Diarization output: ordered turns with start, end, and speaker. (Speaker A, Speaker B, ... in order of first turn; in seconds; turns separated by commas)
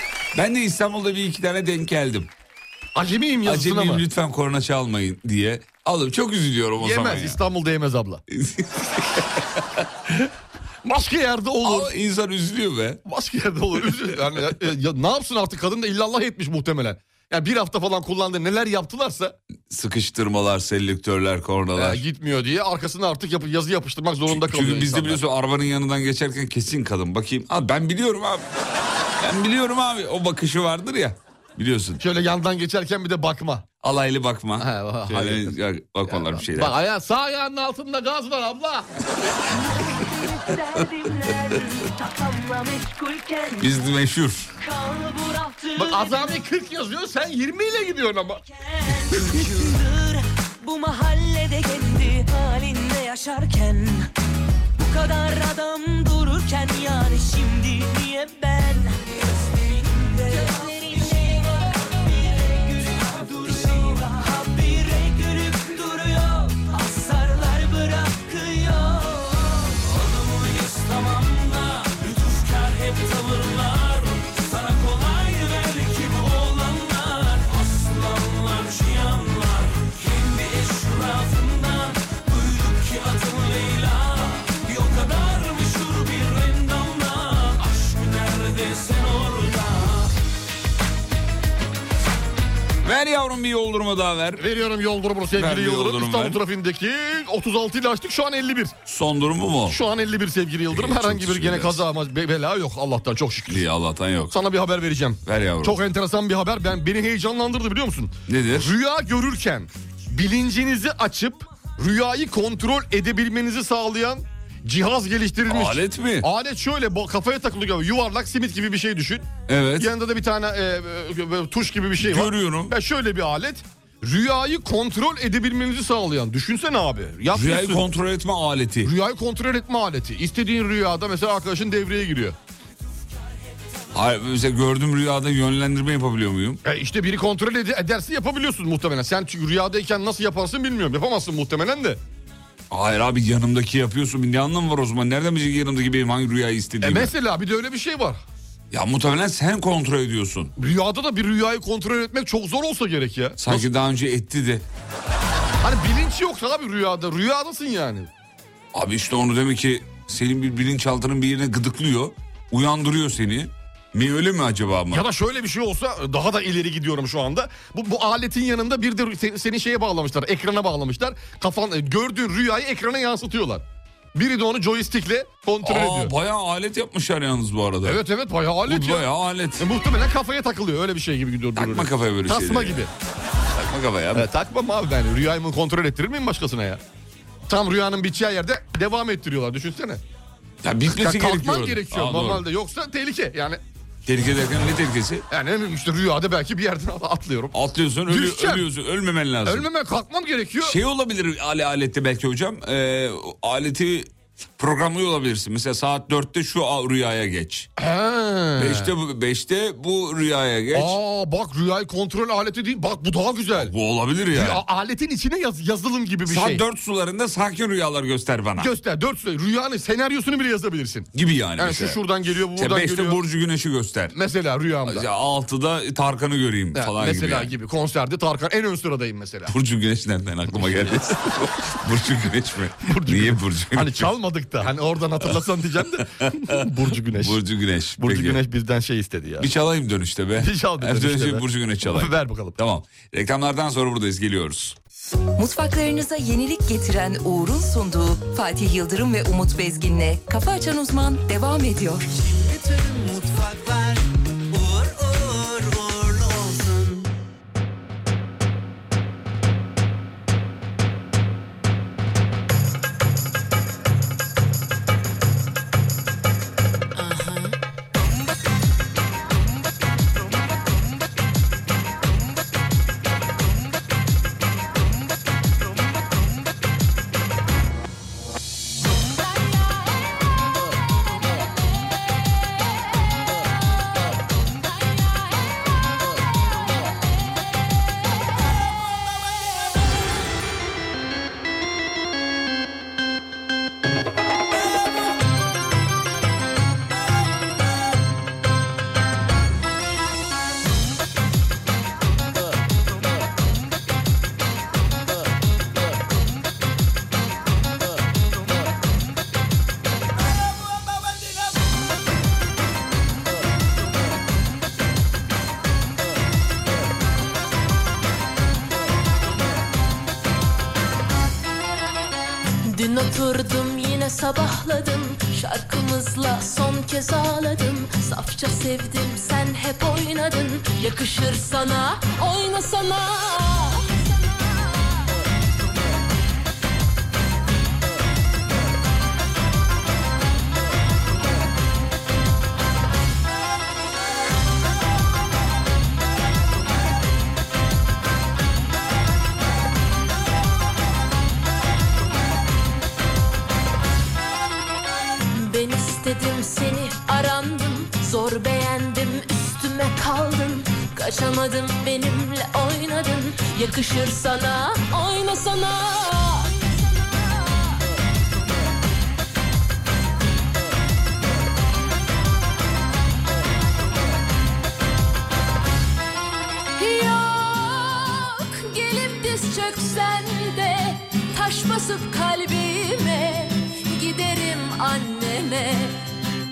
Speaker A: 0.3-2.3, Speaker B: 2.9-4.0, Speaker A: 3.4-7.4, Speaker B: 6.8-8.2, Speaker A: 8.3-9.6, Speaker B: 10.8-11.9, Speaker A: 11.6-13.0, Speaker B: 13.1-19.4, Speaker A: 19.7-22.0, Speaker B: 21.8-25.2, Speaker A: 24.2-28.4, Speaker A: 29.2-32.0, Speaker B: 32.0-33.6, Speaker A: 33.8-36.8, Speaker B: 34.6-35.5, Speaker B: 36.1-38.9, Speaker C: 39.6-43.8, Speaker A: 43.6-44.5, Speaker C: 44.6-46.4, Speaker B: 45.8-48.4, Speaker C: 48.5-54.1, Speaker C: 54.8-90.1, Speaker A: 92.8-94.4, Speaker B: 94.4-98.7, Speaker A: 95.3-96.4, Speaker A: 98.8-99.8, Speaker B: 99.7-103.6, Speaker A: 100.7-101.8, Speaker A: 103.5-104.3, Speaker B: 104.3-119.3, Speaker A: 105.2-105.8, Speaker A: 108.3-108.7, Speaker A: 115.5-116.3, Speaker A: 119.5-119.9, Speaker B: 119.8-127.8, Speaker A: 122.0-122.7, Speaker A: 127.3-128.9, Speaker B: 128.8-132.3, Speaker A: 133.9-136.6, Speaker B: 136.6-142.0, Speaker A: 142.7-147.1, Speaker B: 146.8-148.2, Speaker A: 148.7-150.5, Speaker B: 150.6-153.7, Speaker A: 153.4-154.6, Speaker B: 155.6-158.1, Speaker A: 158.7-165.1, Speaker B: 164.9-176.1, Speaker A: 175.6-178.0, Speaker B: 177.8-179.1, Speaker A: 178.7-179.7, Speaker B: 179.6-182.9, Speaker A: 181.5-182.8, Speaker A: 183.5-184.3, Speaker B: 184.1-186.8, Speaker B: 187.5-190.0, Speaker A: 190.6-192.4, Speaker B: 190.9-193.6, Speaker A: 194.1-195.2, Speaker B: 195.3-197.5, Speaker A: 197.5-199.7, Speaker B: 198.1-198.7, Speaker B: 199.4-200.8, Speaker A: 200.6-207.7, Speaker B: 207.8-208.9, Speaker A: 208.6-211.0, Speaker B: 210.7-213.7, Speaker A: 213.5-214.6, Speaker B: 214.3-216.6, Speaker A: 216.2-218.7, Speaker B: 218.6-223.2, Speaker A: 221.1-222.0, Speaker A: 222.5-224.2, Speaker B: 224.1-225.1, Speaker A: 224.8-227.5, Speaker B: 226.7-229.5, Speaker A: 229.5-234.1, Speaker B: 230.6-231.0, Speaker B: 232.8-237.4, Speaker A: 236.2-236.6, Speaker A: 237.1-238.4, Speaker B: 238.0-239.5, Speaker A: 239.4-244.8, Speaker B: 240.4-242.6, Speaker D: 245.4-252.1, Speaker E: 252.1-257.1, Speaker F: 322.6-334.9, Speaker F: 355.3-367.7, Speaker F: 376.8-386.0